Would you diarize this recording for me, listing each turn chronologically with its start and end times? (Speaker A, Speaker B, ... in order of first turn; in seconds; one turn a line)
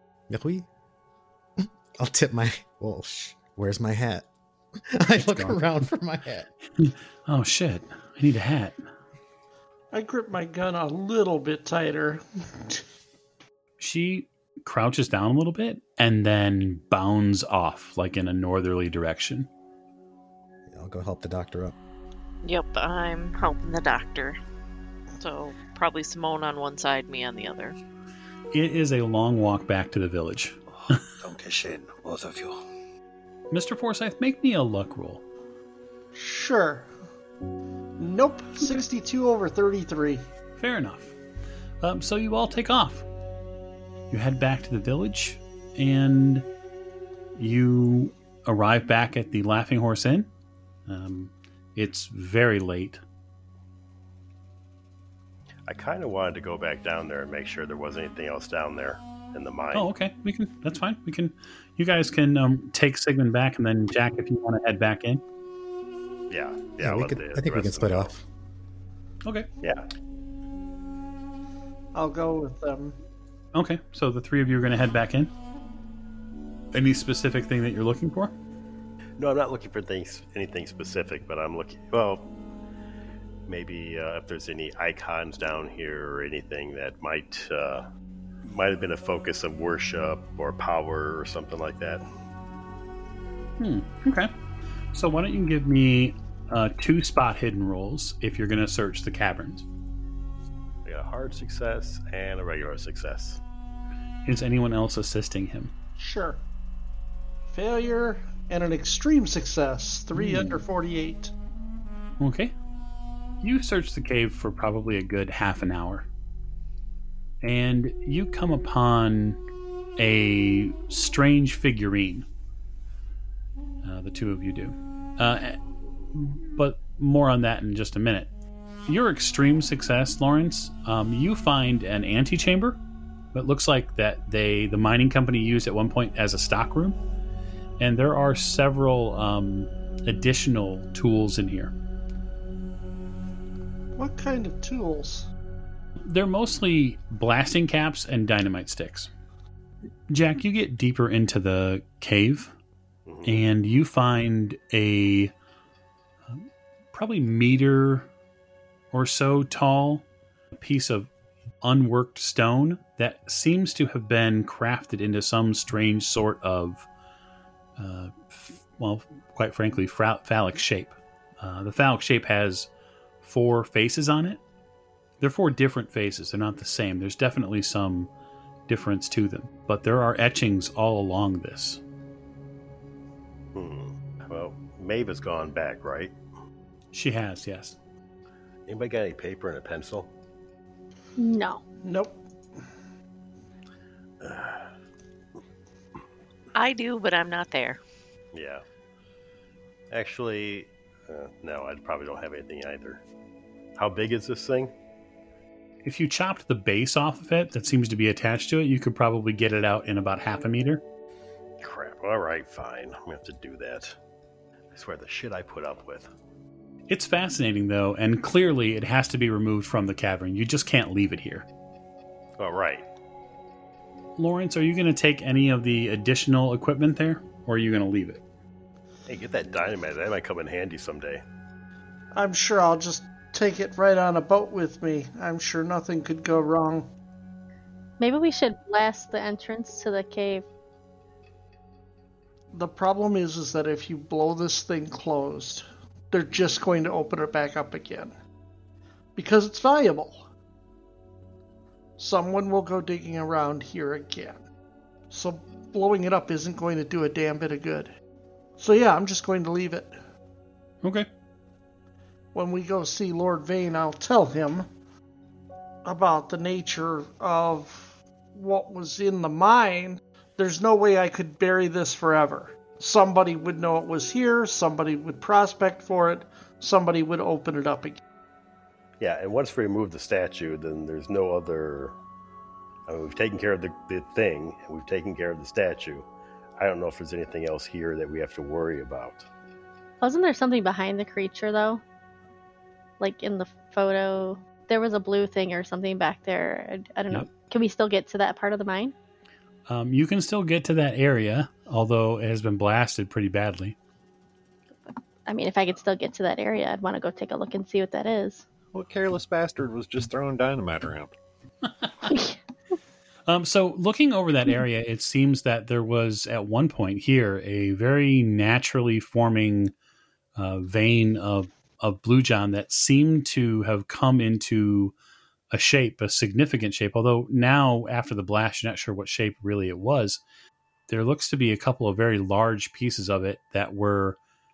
Speaker A: 0.3-0.7
Speaker A: 1.6-4.3
Speaker A: 4.8-6.5
Speaker B: 5.2-5.6
Speaker B: 6.8-8.8
Speaker C: 9.9-12.8
Speaker B: 13.8-19.5
Speaker A: 20.7-21.8
Speaker D: 22.4-24.4
Speaker D: 25.2-27.8
Speaker B: 28.5-30.9
Speaker E: 30.8-32.6
Speaker B: 33.5-35.2
Speaker C: 36.1-36.9
Speaker C: 38.0-40.2
Speaker B: 40.6-41.1
Speaker B: 41.8-43.0
Speaker B: 44.1-46.5
Speaker B: 47.4-50.3
Speaker B: 50.9-53.0
Speaker F: 55.7-59.9
Speaker B: 59.7-65.2
Speaker F: 66.3-68.1
Speaker A: 66.8-68.2
Speaker F: 69.6-69.9
Speaker C: 71.9-73.0
Speaker B: 73.5-75.3
Speaker B: 76.7-78.3
Speaker F: 79.2-82.3
Speaker F: 83.5-87.9
Speaker F: 88.4-92.0
Speaker B: 93.6-94.3
Speaker B: 94.9-99.6
Speaker F: 100.8-103.4
Speaker B: 104.2-105.7
Speaker C: 106.0-106.4
Speaker C: 107.5-111.3
Speaker B: 110.1-110.6
Speaker B: 112.2-112.5
Speaker B: 113.4-116.1
Speaker B: 117.4-119.4
Speaker B: 120.0-122.2
Speaker B: 123.8-125.6
Speaker B: 126.1-128.3
Speaker B: 128.9-132.8
Speaker B: 133.3-137.0
Speaker B: 137.8-141.7
Speaker C: 143.9-145.3
Speaker B: 146.0-149.1
Speaker B: 150.1-152.5
Speaker F: 153.1-153.4
Speaker B: 153.2-155.3
Speaker B: 156.3-158.1
Speaker B: 158.9-160.0
Speaker B: 160.6-161.1
Speaker B: 161.6-166.9
Speaker B: 167.8-172.7
Speaker B: 173.2-174.4
Speaker B: 175.2-178.1
Speaker B: 178.7-181.8
Speaker F: 183.5-186.1
Speaker B: 186.9-187.8
Speaker F: 188.7-190.1
Speaker G: 191.2-191.6
Speaker C: 191.8-192.2
Speaker F: 194.2-194.7
Speaker D: 196.5-197.8
Speaker F: 198.3-198.6
Speaker F: 199.9-203.0
Speaker F: 203.8-204.7
Speaker B: 205.8-210.8
Speaker F: 211.6-214.0
Speaker F: 214.7-216.1
Speaker B: 216.9-221.4
Speaker F: 222.4-222.8
Speaker B: 224.2-228.2
Speaker F: 229.1-231.2
Speaker C: 232.1-236.9
Speaker G: 238.0-240.4
Speaker C: 242.5-248.1
Speaker C: 249.2-250.2
Speaker C: 252.0-254.4
Speaker C: 255.1-257.9
Speaker C: 258.6-260.0
Speaker B: 260.8-261.1
Speaker C: 262.3-264.7
Speaker C: 265.8-278.0
Speaker F: 279.0-281.9
Speaker F: 282.9-289.2
Speaker G: 290.0-291.8
Speaker G: 293.0-298.9
Speaker B: 299.7-303.8
Speaker G: 305.2-308.4
Speaker E: 308.7-311.1
Speaker B: 311.8-312.1
Speaker G: 312.1-312.4
Speaker B: 313.3-319.7
Speaker B: 320.4-324.9
Speaker B: 325.5-330.2
Speaker B: 330.9-334.2